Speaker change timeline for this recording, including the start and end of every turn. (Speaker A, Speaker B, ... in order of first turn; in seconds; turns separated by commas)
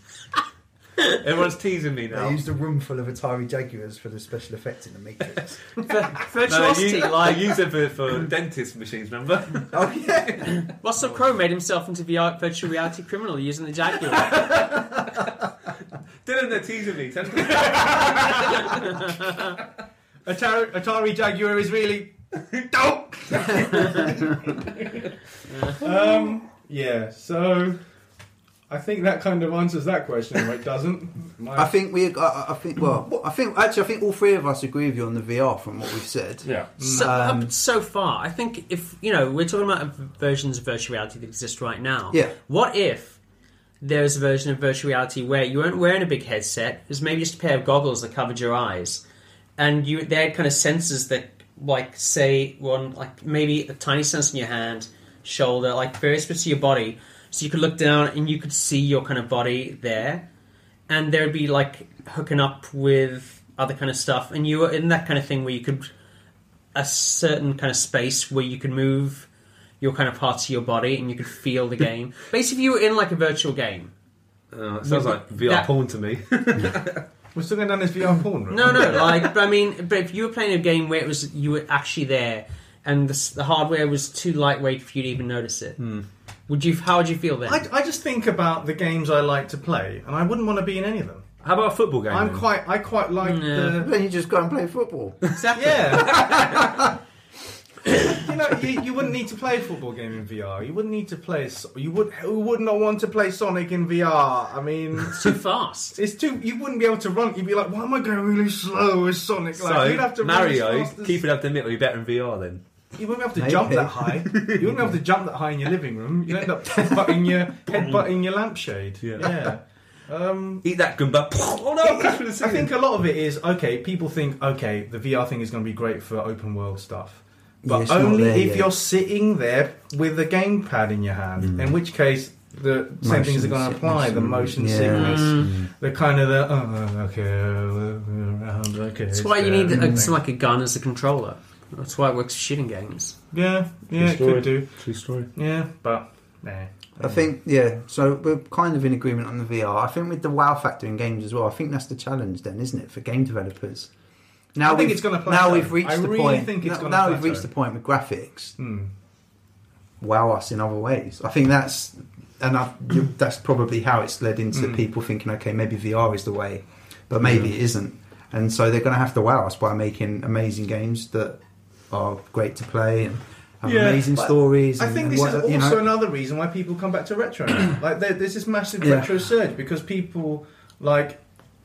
Speaker A: 1.1-2.4, Speaker B: 2.1-5.6, Speaker C: 5.8-7.5, Speaker A: 6.5-9.8, Speaker B: 9.7-10.6, Speaker C: 10.7-14.5, Speaker A: 14.2-15.3, Speaker A: 16.2-19.2, Speaker D: 17.7-18.6, Speaker C: 18.6-19.5, Speaker D: 20.2-25.1, Speaker C: 25.5-25.8, Speaker D: 25.7-27.8, Speaker D: 28.7-31.7, Speaker B: 31.5-37.5, Speaker D: 36.8-37.1, Speaker C: 36.8-43.2, Speaker C: 43.8-49.0, Speaker C: 49.6-60.2, Speaker C: 60.9-65.9, Speaker C: 66.7-69.3, Speaker C: 69.8-73.9, Speaker A: 74.5-77.0, Speaker C: 74.8-75.7, Speaker D: 77.3-79.2, Speaker C: 78.5-85.8, Speaker A: 85.8-86.0, Speaker C: 86.5-87.6, Speaker D: 87.5-91.3, Speaker A: 91.4-92.5, Speaker D: 92.1-93.9, Speaker C: 93.2-93.8, Speaker B: 93.8-95.3, Speaker C: 95.3-96.1, Speaker D: 95.5-96.8, Speaker B: 96.4-96.8, Speaker D: 97.9-105.4, Speaker C: 105.1-106.0, Speaker D: 106.0-111.2, Speaker A: 109.5-112.6, Speaker D: 113.0-120.6, Speaker B: 113.3-114.2, Speaker A: 114.3-114.9, Speaker A: 117.7-118.0, Speaker A: 119.0-119.5, Speaker A: 120.6-122.7, Speaker D: 121.8-140.2, Speaker B: 127.6-128.7, Speaker B: 133.0-135.3, Speaker C: 134.9-135.6, Speaker A: 135.4-135.7, Speaker C: 139.1-143.2, Speaker B: 139.7-140.0, Speaker D: 143.3-147.2, Speaker A: 144.0-145.3, Speaker B: 147.0-153.9, Speaker B: 154.5-158.6, Speaker D: 154.6-157.5, Speaker D: 158.6-158.9, Speaker B: 160.0-175.8, Speaker D: 164.5-164.8, Speaker D: 173.6-181.2, Speaker B: 178.8-179.1